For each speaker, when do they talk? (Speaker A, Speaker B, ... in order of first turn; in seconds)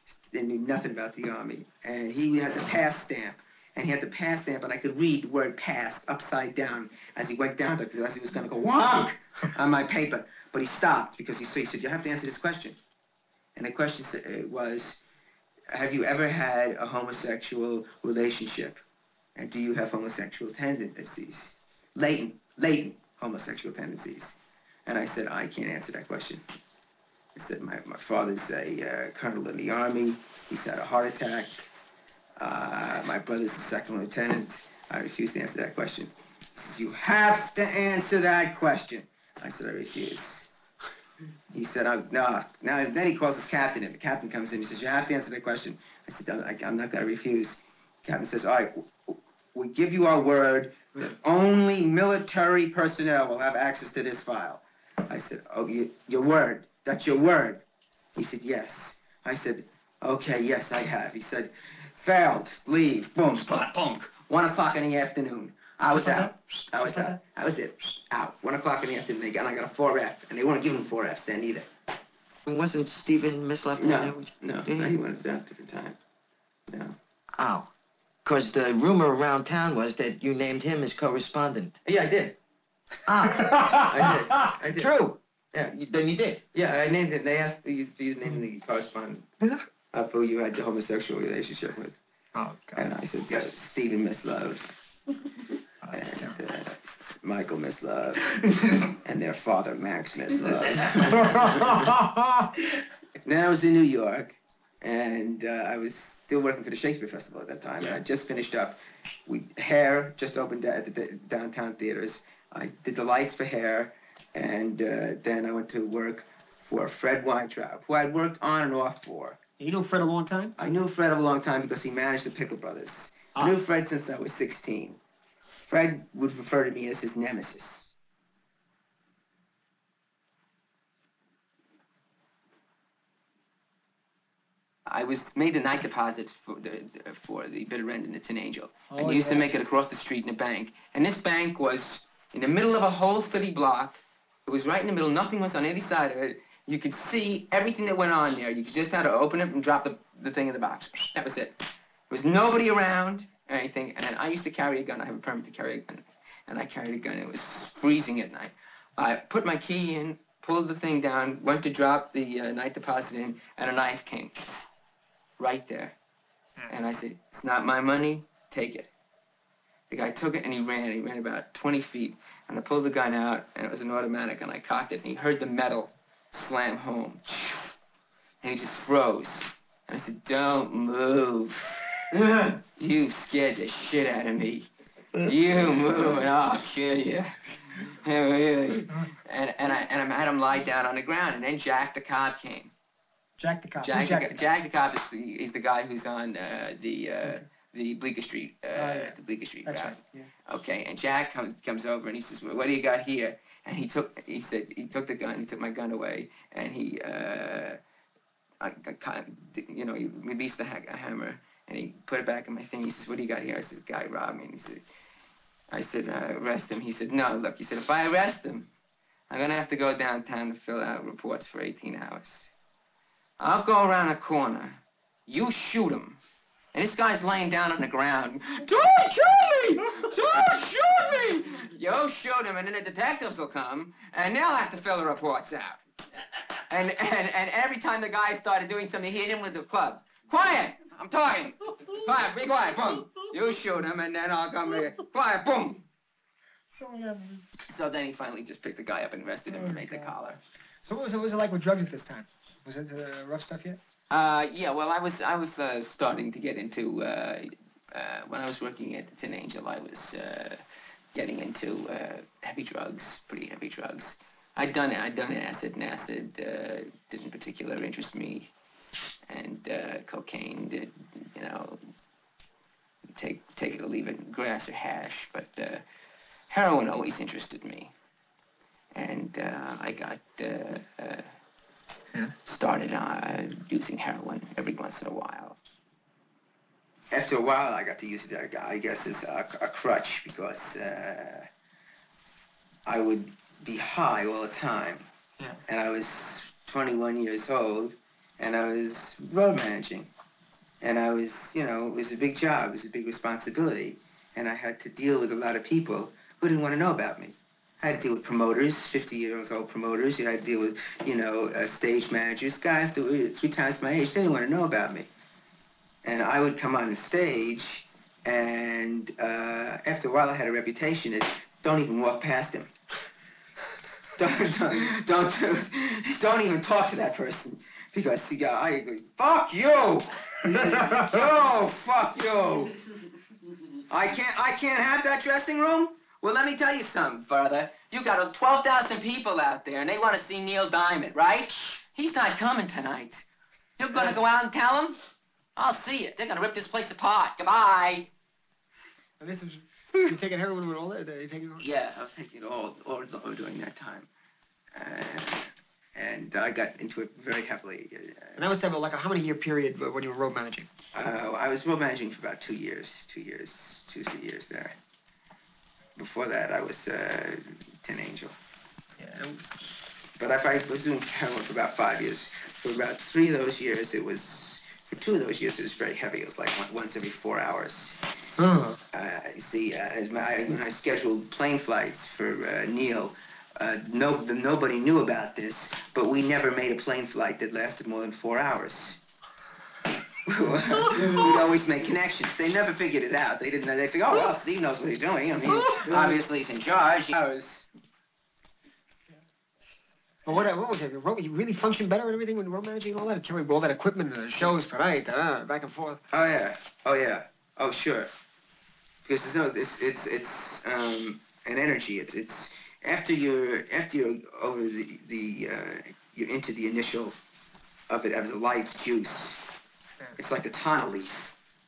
Speaker A: 0.3-12.8, 13.6-15.0, 15.7-18.8, 19.4-24.3, 24.9-26.4, 27.4-31.6, 32.4-40.5, 41.5-57.6, 58.1-71.7, 73.8-76.0, 76.7-77.0, 81.8-82.4, 83.4-85.0, 85.5-85.8, 86.4-89.3, 89.9-92.0, 92.8-94.8, 95.9-102.0, 103.2-119.4, 120.6-125.0, 125.7-127.9, 134.9-164.7, 165.4-166.0, 166.7-168.9, 169.9-177.7, 178.4-184.7, 185.2-192.7, 193.8-207.8, 208.6-214.9, 215.7-218.7, 219.3-222.5, 223.4-226.2, 226.7-235.8, 236.7-245.8, 247.6-250.4, 254.1-260.6, 261.1-268.5, 269.3-271.8, 273.2-275.8, 276.5-277.9, 278.9-281.3, 282.4-285.6, 287.1-291.5, 292.9-295.1, 295.7-300.1, 300.8-315.1, 316.0-322.7, 324.2-332.8, 333.9-343.2, 343.8-345.0, 345.6-348.1, 351.6-354.1, 354.7-358.4, 360.9-364.8, 366.0-368.4, 370.2-378.0, 378.9-389.0, 390.2-397.7, 406.1-408.1, 409.0-417.2, 417.9-419.4, 420.2-421.4
Speaker B: 72.5-74.9, 77.4-77.7, 78.2-81.8, 83.1-83.8, 84.8-85.2, 85.7-86.4
Speaker C: 92.3-92.9, 95.8-96.4, 101.5-102.2, 119.6-120.5, 138.9-139.5, 193.4-194.4, 198.7-200.3, 246.8-247.4, 249.5-250.1, 250.8-253.8, 349.2-351.6, 358.4-360.7, 369.0-369.4, 378.4-378.8, 395.6-396.1, 400.3-406.0